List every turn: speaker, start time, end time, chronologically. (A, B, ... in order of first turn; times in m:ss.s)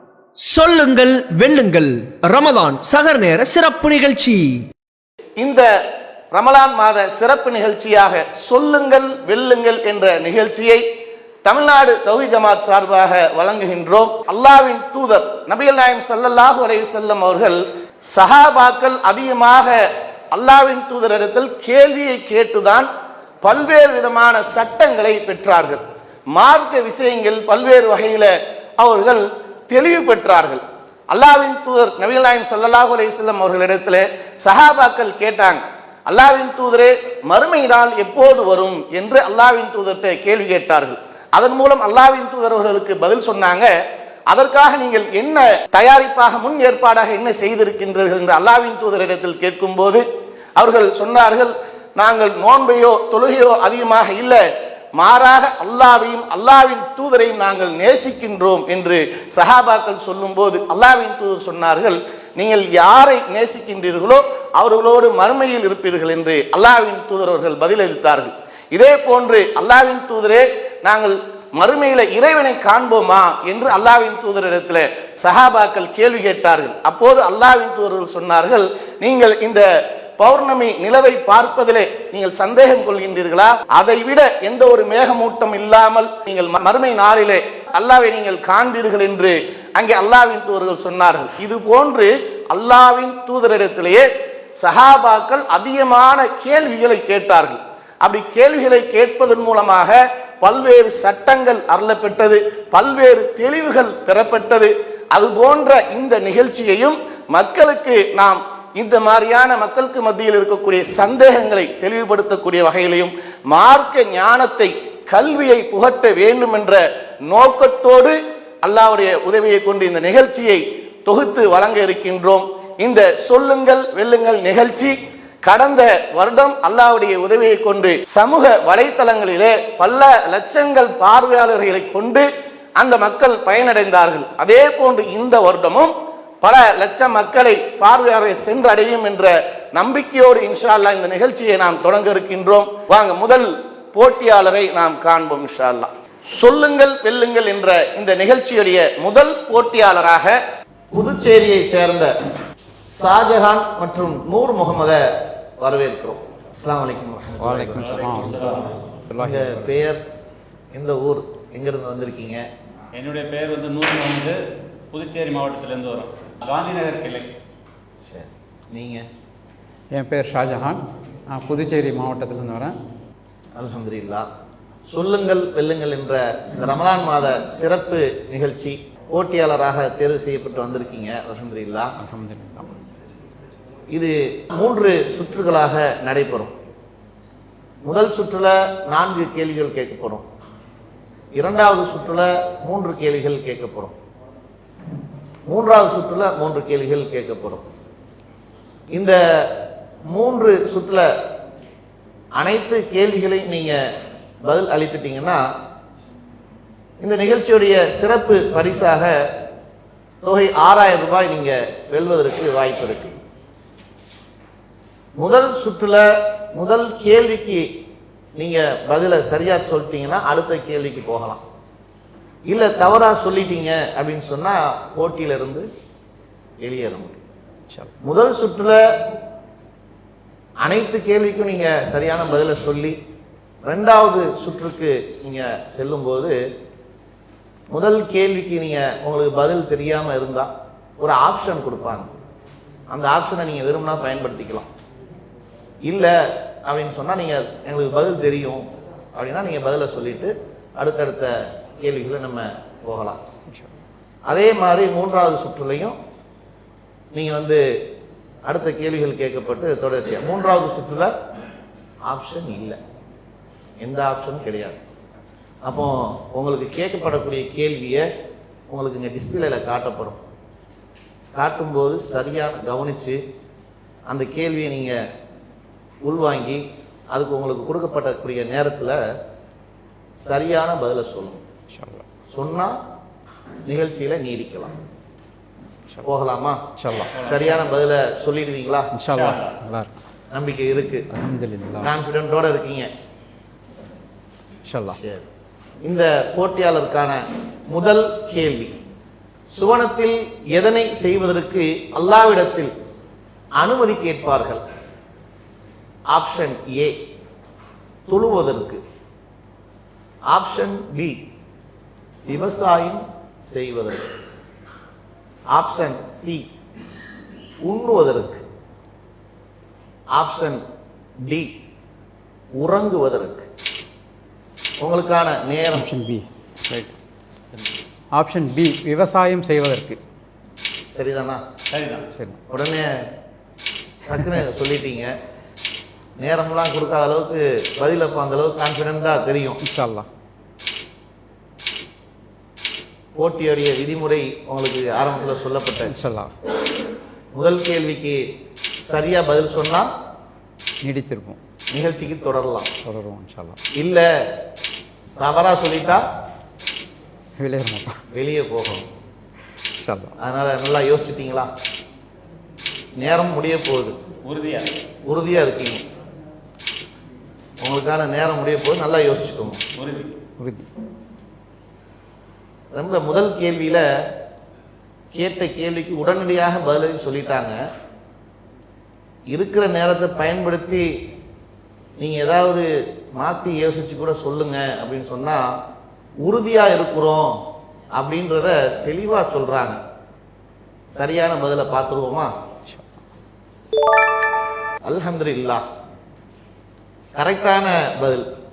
0:00.4-0:04.6 A
0:05.4-0:05.7 B
0:06.3-0:10.8 B
0:11.4-0:22.9 B
0:23.4-0:43.7 B
0:44.3-0:50.0 B
0:50.6-0:54.4 B
0:55.0-1:19.7 B
1:20.2-2:30.4 B
2:30.9-2:32.1 B
2:32.8-2:38.2 B
2:37.4-2:38.4 C
2:37.8-2:38.9 D
2:39.1-2:39.7 C
2:39.2-2:40.0 B
2:40.7-2:42.5 B
2:42.9-2:44.4 D
2:44.9-2:47.3 D
2:48.0-2:49.1 B
2:49.9-2:52.8 C
2:53.6-2:54.3 B
2:54.9-3:01.9 B
3:02.0-3:02.7 C
3:03.9-3:06.5 B
3:07.8-3:10.2 B
3:11.4-3:13.9 B
3:15.5-3:17.6 B
3:18.9-3:19.6 B
3:20.1-3:21.1 B
3:22.4-3:23.8 B
3:24.4-3:25.5 B
3:27.0-3:29.3 B
3:30.2-3:33.2 B
3:35.2-3:37.7 B
3:38.4-3:41.4 B
3:42.5-3:45.7 B
3:46.6-3:47.2 B
3:48.0-3:48.8 B
3:50.6-3:53.0 B
3:53.6-3:56.4 B
3:57.7-4:02.1 B
4:02.9-4:04.7 B
4:05.8-4:13.2 B
4:14.3-4:16.0 B
4:17.1-4:17.6 B
4:18.4-4:21.1 B
4:22.0-4:22.8 B
4:23.8-4:24.8 B
4:25.6-4:28.1 B
4:28.7-4:30.2 B
4:31.3-4:33.2 B
4:34.1-4:35.0 B
4:36.0-4:39.0 B
4:40.2-4:41.4 B
4:41.7-4:42.0 C
4:42.3-4:42.8 B
4:43.6-4:44.7 B
4:46.0-4:48.9 B
4:46.8-4:47.1 C
4:47.1-4:47.6 D
4:48.9-4:49.9 C
4:49.1-4:49.5 D
4:50.3-4:51.1 B
4:51.1-4:51.9 C
4:51.8-4:52.9 B
4:54.6-4:55.0 C
4:54.9-4:55.2 B
4:55.8-4:58.8 B
4:59.5-5:02.7 B
5:03.6-5:04.6 B
5:06.1-5:07.0 B
5:08.1-5:08.8 B
5:10.3-5:11.2 B
5:12.3-5:14.1 B
5:15.5-5:16.5 B
5:17.6-5:18.4 B
5:20.1-5:20.6 B
5:21.2-5:21.5 B
5:22.5-5:23.5 B
5:24.8-5:25.9 B
5:25.7-5:26.9 C
5:28.1-5:30.0 C
5:30.9-5:31.4 B
5:31.7-5:32.0 D
5:32.1-5:32.4 C
5:32.5-5:33.0 B
5:34.0-5:35.1 B
5:36.2-5:39.6 B
5:39.6-5:40.1 C
5:43.2-5:46.0 B
5:45.8-5:46.3 C
5:47.3-5:48.2 B
5:48.8-5:49.9 B
5:50.8-5:51.4 C
5:51.7-5:52.7 B
5:52.8-5:53.6 C
5:53.7-5:54.3 B
5:55.1-5:56.0 B
5:57.4-5:58.0 C
5:58.1-5:58.9 B
5:59.8-6:00.1 C
6:00.2-6:01.5 B
6:03.0-6:04.0 B
6:04.2-6:04.7 D
6:05.0-6:05.8 B
6:07.6-6:09.6 B
6:09.7-6:10.1 D
6:10.4-6:10.7 C
6:12.7-6:13.8 B
6:15.1-6:17.6 B
6:19.3-6:21.0 B
6:22.0-6:25.6 B
6:26.2-6:27.4 B
6:27.9-6:29.8 B
6:30.9-6:32.3 B
6:32.7-6:32.9 C
6:34.8-6:35.6 B
6:37.1-6:38.3 B